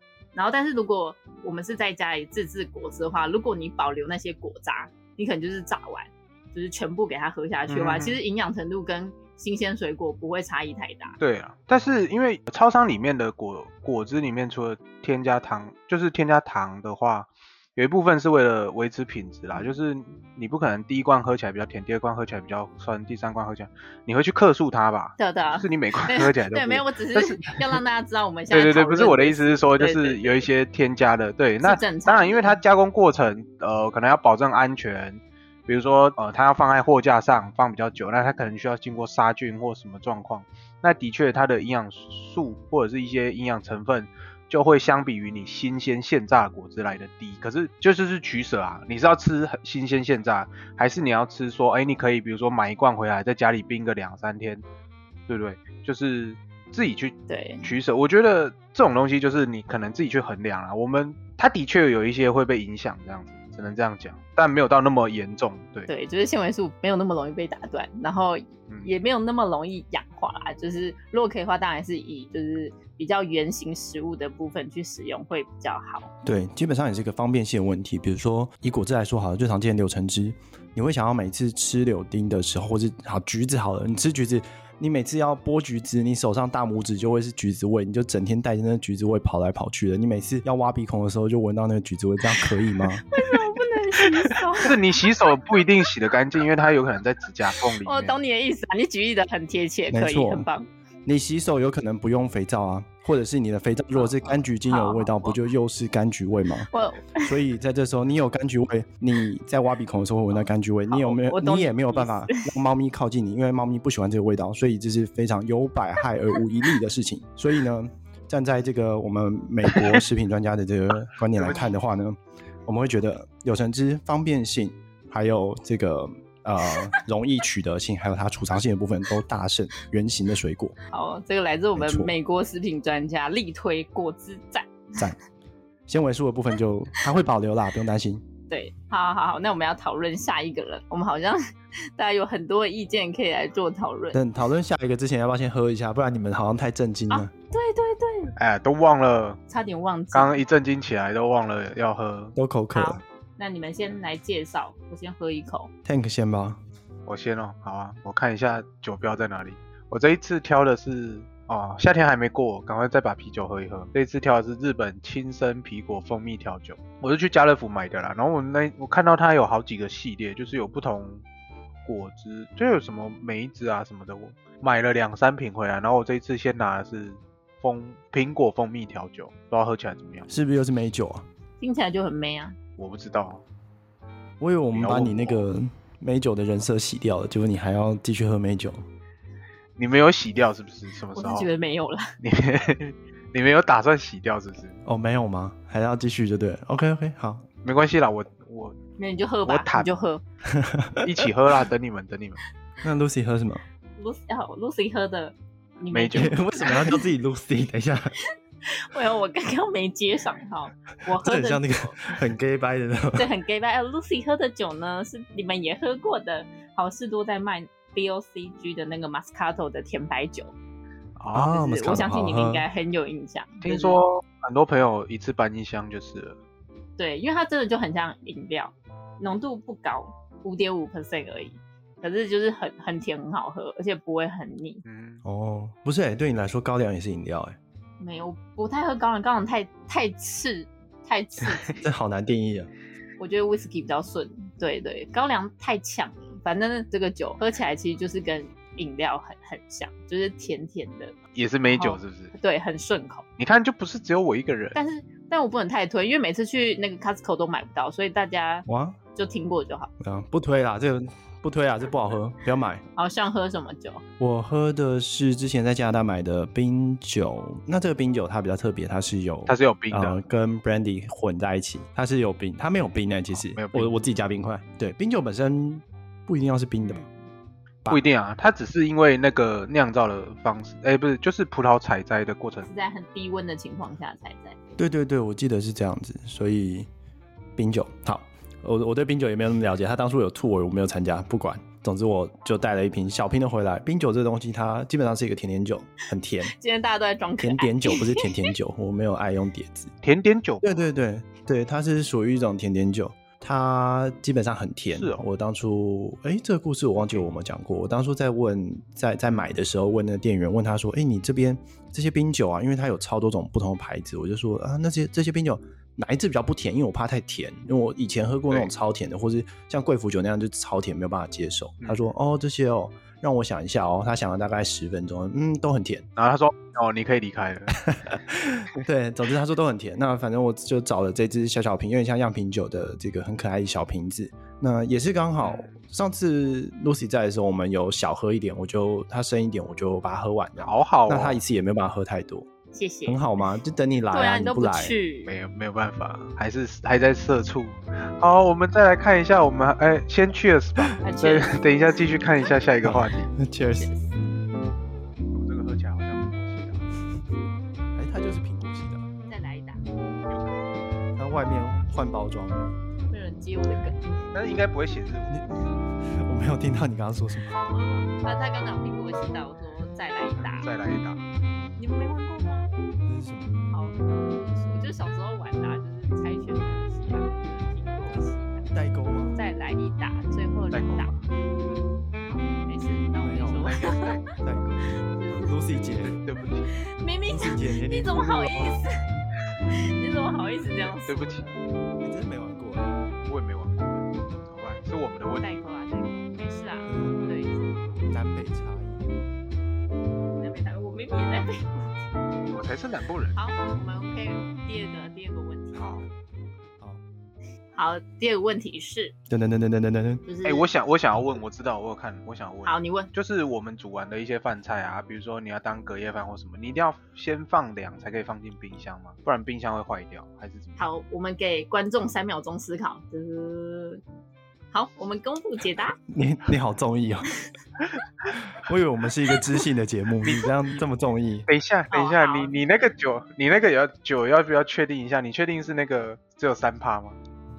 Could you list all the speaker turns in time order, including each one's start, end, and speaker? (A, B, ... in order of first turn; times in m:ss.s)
0:00.3-0:11.2 A
0:07.7-0:08.2 B
0:11.2-0:27.8 B
0:25.2-0:30.5 A
0:28.5-0:54.6 B
0:31.6-0:32.6 A
0:55.3-1:05.9 B
0:57.3-0:57.7 A
1:05.9-1:16.1 A
1:16.2-1:33.1 C
1:33.1-1:34.8 A
1:34.0-1:38.2 B
1:37.8-1:40.7 A
1:39.9-1:40.5 C
1:41.0-1:46.7 C
1:43.9-1:45.4 A
1:46.7-1:47.4 A
1:47.2-2:10.8 C
1:50.9-1:52.6 A
2:01.4-2:01.7 B
2:10.9-2:15.0 A
2:11.8-2:12.1 C
2:15.9-2:18.2 C
2:18.5-2:24.2 A
2:24.1-2:27.3 C
2:27.1-2:28.4 A
2:28.4-2:29.4 B
2:29.5-2:30.4 A
2:30.1-2:32.4 B
2:32.4-2:33.0 C
2:32.7-2:35.7 A
2:35.8-2:36.6 C
2:37.1-2:51.2 B
2:51.8-3:00.3 B
3:00.3-3:01.2 C
3:01.6-3:02.6 A
3:02.8-3:03.4 B
3:04.4-3:08.8 C
3:04.8-3:05.4 B
3:09.8-3:11.5 B
3:11.1-3:12.2 A
3:12.2-3:14.8 B
3:14.8-3:17.4 C
3:17.6-3:18.8 B
3:19.0-3:20.2 A
3:19.4-3:20.0 B
3:20.4-3:21.1 C
3:21.0-3:22.4 B
3:22.8-3:23.6 C
3:24.0-3:27.1 A
3:25.9-3:26.4 B
3:26.1-3:28.2 C
3:28.6-3:32.2 A
3:31.1-3:33.3 C
3:33.1-3:40.5 A
3:41.2-3:41.5 B
3:41.3-3:42.6 C
3:41.4-3:44.0 A
3:43.6-3:46.4 B
3:47.0-3:54.8 A
3:54.8-3:55.2 B
3:55.2-3:57.6 C
3:58.0-4:01.9 A
4:01.7-4:02.7 C
4:03.2-4:11.2 A
4:11.3-4:12.3 B
4:11.7-4:13.2 A
4:13.4-4:14.8 B
4:14.8-4:19.9 A
4:18.7-4:19.0 C
4:20.0-4:22.8 C
4:23.0-4:24.0 A
4:24.2-4:37.0 C
4:29.5-4:30.2 B
4:33.3-4:33.9 B
4:36.8-4:37.1 A
4:37.9-4:42.7 B
4:42.6-4:44.6 A
4:44.8-4:46.9 C
4:47.6-4:56.5 C
4:56.5-4:58.5 A
4:57.4-4:59.9 C
5:00.0-5:00.7 B
5:00.6-5:26.1 C
5:04.9-5:05.2 B
5:21.8-5:22.1 B
5:26.2-5:27.8 B
5:27.7-5:42.5 C
5:35.4-5:35.7 B
5:40.6-5:41.4 B
5:42.7-5:43.5 A
5:43.0-5:44.9 C
5:44.1-5:45.3 A
5:45.2-5:53.3 B
5:51.0-5:52.8 A
5:52.8-5:53.9 C
5:53.7-5:54.2 A
5:55.3-5:56.8 B
5:57.9-5:59.1 C
5:59.3-5:59.8 A
6:00.3-6:00.7 B
6:01.2-6:02.8 C
6:03.1-6:04.2 A
6:04.3-6:05.4 B
6:06.0-6:07.6 C
6:07.5-6:10.7 A
6:10.4-6:11.2 B
6:11.8-6:12.7 A
6:13.0-6:13.6 C
6:13.7-6:18.7 A
6:18.7-6:19.4 C
6:19.4-6:21.1 A
6:20.7-6:21.2 B
6:22.3-6:24.2 A
6:23.2-6:26.2 C
6:25.1-6:25.5 A
6:26.1-6:26.7 B
6:26.7-6:29.0 A
6:27.2-6:28.8 C
6:29.7-6:31.6 A
6:31.0-6:31.4 B
6:32.0-6:32.9 C
6:33.2-6:35.5 B
6:35.4-6:37.9 A
6:36.9-6:37.2 C
6:38.0-6:39.1 C
6:40.3-6:42.0 A
6:42.5-6:43.4 B
6:43.4-6:45.9 A
6:45.8-6:46.0 B
6:47.8-6:49.1 A
6:49.3-6:50.2 C
6:50.2-6:50.7 A
6:50.4-7:00.8 B
6:52.6-6:53.1 A
7:00.8-7:04.0 A
7:04.7-7:06.0 A
7:06.1-7:07.3 C
7:08.4-7:11.5 C
7:11.5-7:17.2 B
7:11.9-7:12.6 A